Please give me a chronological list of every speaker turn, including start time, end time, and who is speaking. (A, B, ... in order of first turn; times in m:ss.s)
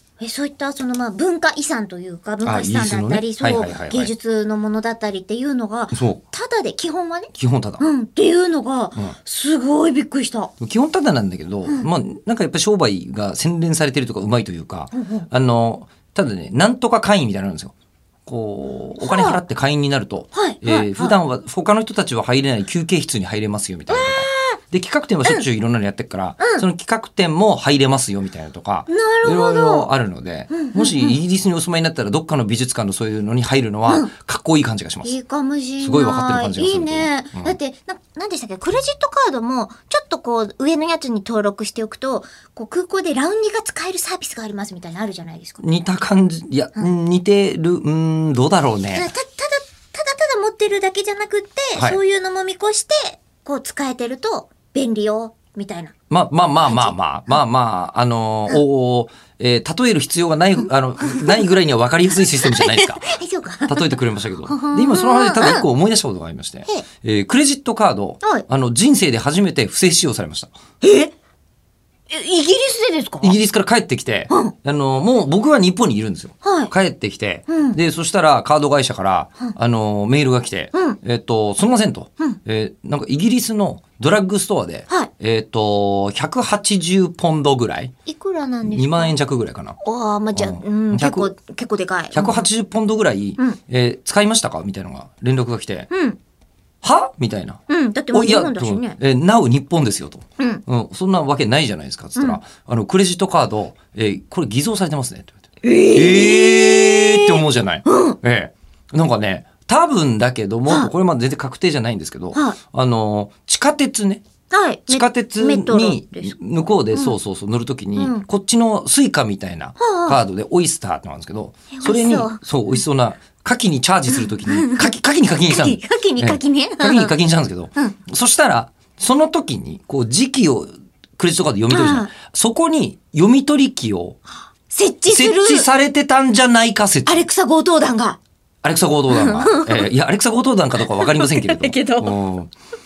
0:00.2-0:10.5 A
0:02.4-0:04.1 B
0:05.9-0:06.2 B
0:07.3-0:07.8 B
0:10.6-0:17.7 B
0:14.9-0:15.2 A
0:18.2-0:35.2 B
0:19.0-0:19.4 A
0:20.3-0:21.2 A
0:23.9-0:24.6 A
0:28.9-0:29.9 A
0:30.5-0:31.2 A
0:35.0-0:45.6 A
0:35.8-0:37.6 B
0:45.6-0:49.1 B
0:48.9-0:55.9 A
0:51.7-0:52.0 B
0:56.1-1:03.0 B
0:56.6-0:57.3 A
1:01.0-1:01.4 A
1:02.3-1:05.6 A
1:03.6-1:10.5 B
1:10.8-1:11.1 A
1:12.1-1:13.3 A
1:13.2-1:27.9 B
1:16.4-1:16.7 A
1:17.5-1:17.8 A
1:20.7-1:21.0 A
1:28.0-1:29.1 A
1:28.6-1:29.8 B
1:29.8-1:32.5 A
1:30.3-1:31.3 B
1:32.1-1:35.9 B
1:35.9-1:36.2 A
1:36.8-1:37.6 B
1:37.7-1:39.0 A
1:38.1-1:45.4 B
1:40.4-1:40.6 A
1:45.6-1:48.2 A
1:45.9-1:54.2 B
1:54.5-1:56.3 A
1:54.9-2:14.2 B
1:56.9-1:57.2 A
1:58.0-1:58.2 A
1:59.8-2:00.2 A
2:01.7-2:02.4 A
2:04.1-2:04.9 A
2:05.5-2:07.1 A
2:11.7-2:12.1 A
2:14.7-2:15.6 A
2:15.1-2:17.2 B
2:17.0-2:18.2 A
2:18.6-2:22.5 B
2:19.1-2:19.9 A
2:20.8-2:22.1 A